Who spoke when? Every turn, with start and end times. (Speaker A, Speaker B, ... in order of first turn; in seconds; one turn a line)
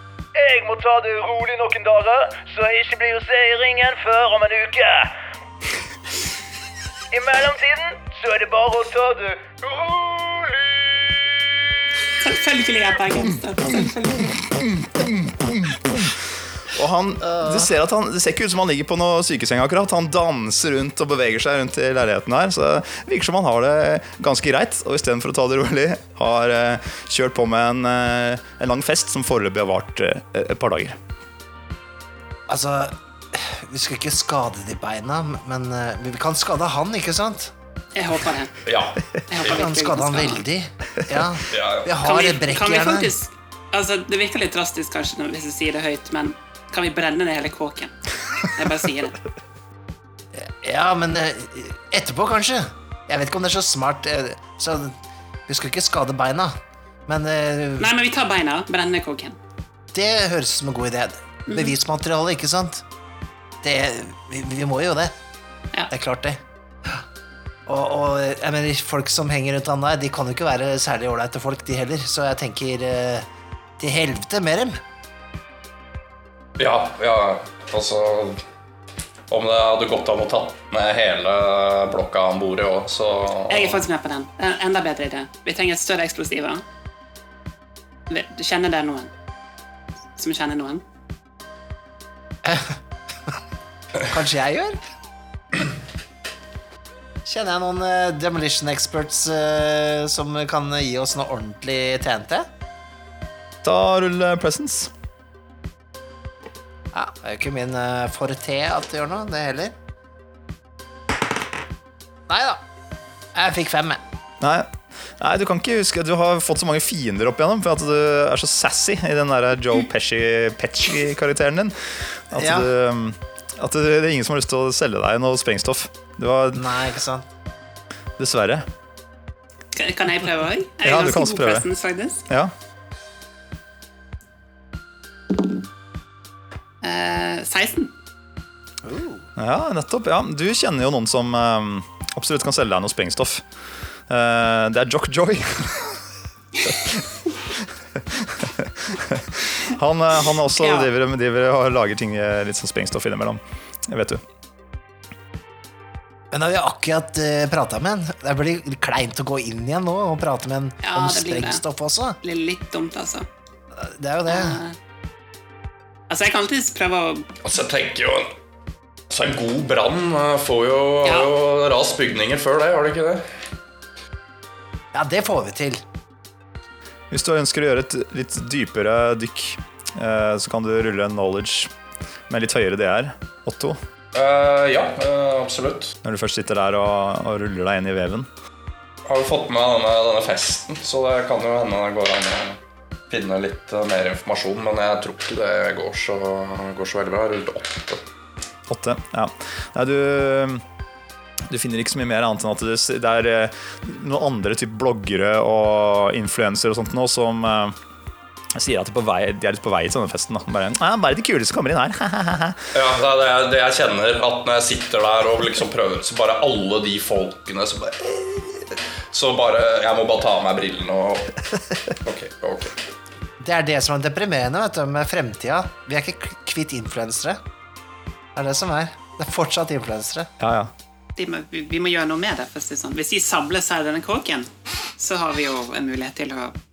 Speaker A: 0.3-5.1
Speaker B: 0.5-4.0
Speaker A: 7.1-10.9
Speaker C: 12.1-14.4
Speaker B: 14.6-31.0
Speaker D: 32.5-37.5
Speaker C: 37.9-38.5
Speaker E: 38.6-39.6
Speaker C: 39.3-40.4
Speaker D: 39.4-43.1
Speaker E: 41.5-42.0
Speaker C: 42.0-49.2
Speaker D: 50.3-55.0
Speaker D: 55.5-56.5
Speaker D: 57.0-57.9
Speaker C: 57.8-59.4
Speaker D: 59.9-62.8
Speaker C: 61.5-61.7
Speaker D: 63.6-65.1
Speaker D: 65.9-67.0
Speaker D: 67.7-73.3
Speaker D: 73.8-74.8
Speaker E: 76.6-78.4
Speaker E: 79.3-83.8
Speaker C: 83.5-86.6
Speaker C: 88.1-89.1
Speaker C: 90.2-90.8
Speaker D: 92.4-93.3
Speaker D: 94.0-94.8
Speaker D: 97.2-102.5
Speaker B: 103.6-104.9
Speaker D: 106.9-109.7
Speaker D: 112.3-112.6
Speaker D: 113.3-114.0
Speaker B: 114.4-126.7
Speaker D: 122.3-122.7
Speaker D: 126.5-127.3
Speaker B: 128.2-128.7
Speaker C: 129.7-132.2
Speaker B: 130.8-131.7
Speaker B: 132.3-132.5
Speaker C: 136.8-137.9
Speaker D: 138.8-139.3
Speaker B: 139.4-143.4
Speaker B: 144.1-146.0
Speaker B: 146.6-154.2
Speaker C: 150.6-150.9
Speaker D: 156.3-162.2
Speaker C: 160.8-161.6
Speaker C: 162.2-163.3
Speaker D: 163.7-164.6
Speaker C: 164.3-164.8
Speaker C: 166.1-167.3
Speaker E: 167.4-168.3
Speaker E: 169.1-173.2
Speaker C: 171.0-171.3
Speaker D: 174.9-175.8
Speaker B: 177.1-181.7
Speaker B: 182.3-183.8
Speaker E: 184.1-186.0
Speaker B: 186.0-188.3
Speaker E: 189.1-192.6
Speaker E: 193.1-198.0
Speaker B: 198.7-200.6
Speaker B: 201.5-207.8
Speaker B: 208.5-212.6
Speaker E: 212.7-222.8
Speaker D: 223.4-227.4
Speaker D: 228.3-230.3
Speaker B: 230.4-230.7
Speaker C: 231.2-236.5